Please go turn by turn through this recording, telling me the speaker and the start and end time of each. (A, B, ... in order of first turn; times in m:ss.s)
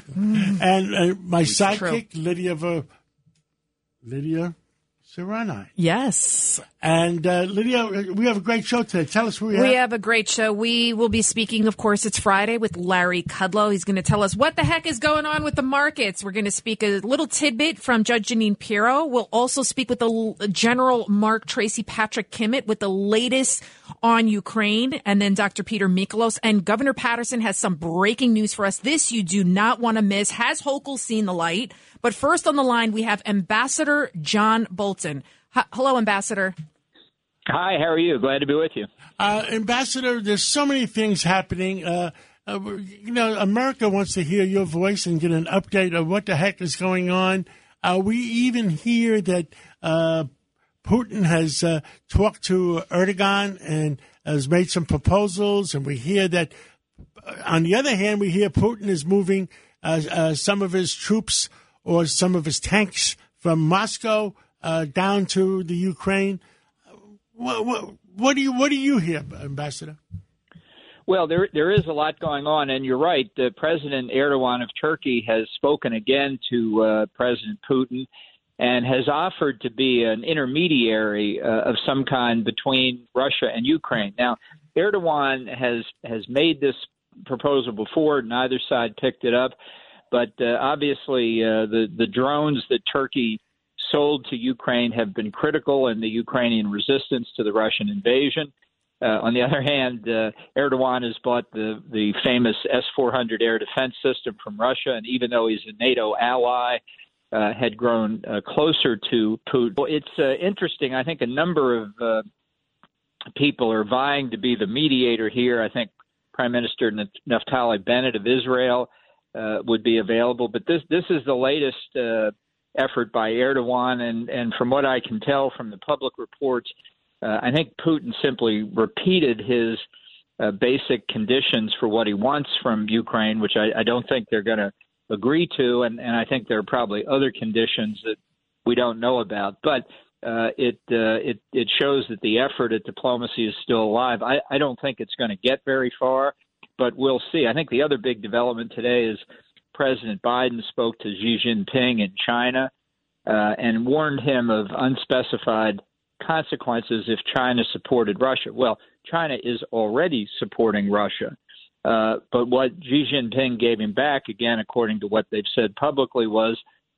0:00.2-0:00.6 A
0:00.4-0:02.9 B
0:01.7-0:02.0 A
0:04.0-0:04.6 B
0:05.1-0:05.7 B
0:05.8-0:06.6 A
0:06.8-0:09.8 B
0:09.5-0:36.6 A
0:37.5-0:38.9 C
0:39.2-0:50.3 B
0:50.8-0:56.5 B
0:57.2-1:06.4 B
1:07.4-1:10.0 B
1:11.1-1:18.1 C
1:18.6-1:29.6 C
1:30.1-1:38.5 C
1:39.0-1:46.8 C
1:47.3-1:52.3 C
1:53.4-2:09.8 C
2:10.4-2:32.7 C
2:33.3-2:46.6 C